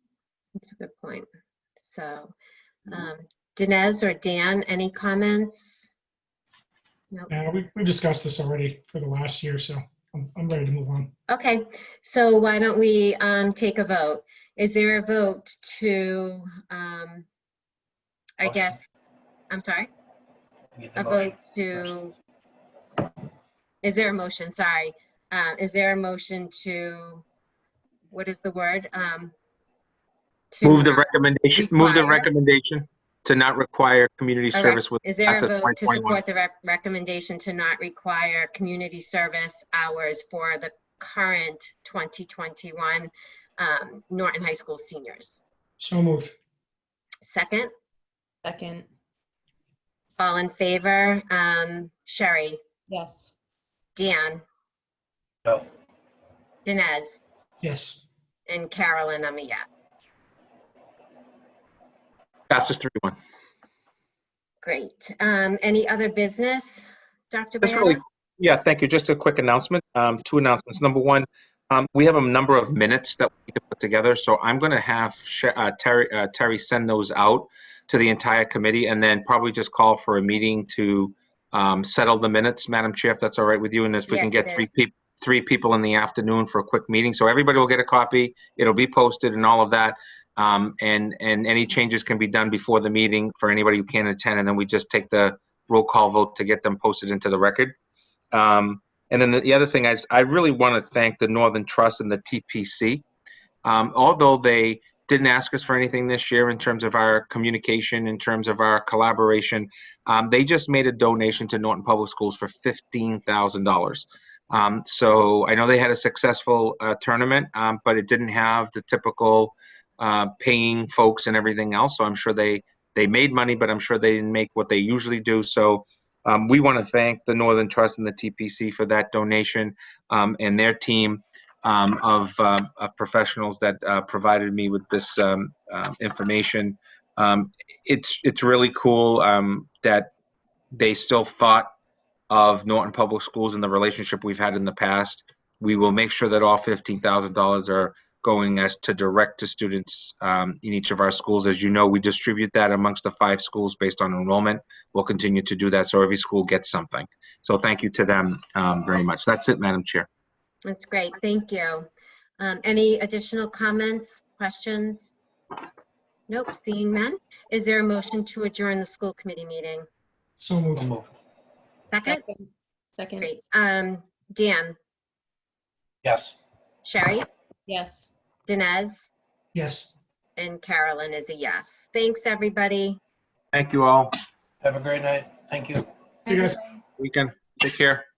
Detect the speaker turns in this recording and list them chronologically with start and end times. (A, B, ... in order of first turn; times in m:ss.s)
0:00.6-0:01.2 A
0:01.8-0:02.3 A
0:02.9-0:05.9 A
0:07.3-0:11.1 B
0:11.3-0:17.3 A
0:18.4-0:18.8 A
0:18.4-0:18.8 C
0:19.5-0:19.9 A
0:20.8-0:21.9 C
0:21.0-0:22.1 A
0:23.8-0:27.2 A
0:28.1-0:29.3 A
0:30.5-0:32.3 A
0:30.6-0:36.2 D
0:34.5-0:45.4 A
0:45.8-0:46.3 B
0:47.2-0:47.7 A
0:48.4-0:48.9 E
0:50.2-0:52.6 A
0:52.9-0:53.3 E
0:54.0-0:54.4 A
0:56.6-0:57.2 A
0:57.6-0:58.0 B
0:58.5-0:59.6 A
1:02.5-1:03.2 D
1:04.6-1:08.0 A
1:07.6-1:37.8 D
1:24.1-1:24.7 A
1:38.3-1:43.0 D
1:43.6-2:20.1 D
2:20.7-2:21.7 D
2:22.3-2:40.1 D
2:40.6-2:41.9 A
2:42.4-2:45.1 A
2:46.3-2:49.8 A
2:50.4-2:51.0 B
2:50.7-2:51.1 C
2:51.9-2:52.2 A
2:52.0-2:53.3 E
2:53.2-2:54.8 A
2:56.0-2:56.3 C
2:56.8-2:57.2 A
2:57.7-2:58.1 E
2:58.5-2:59.1 A
2:59.5-3:00.0 B
3:00.4-3:03.0 A
3:03.5-3:04.1 D
3:04.6-3:05.8 C
3:06.2-3:06.6 B
3:07.0-3:08.0 D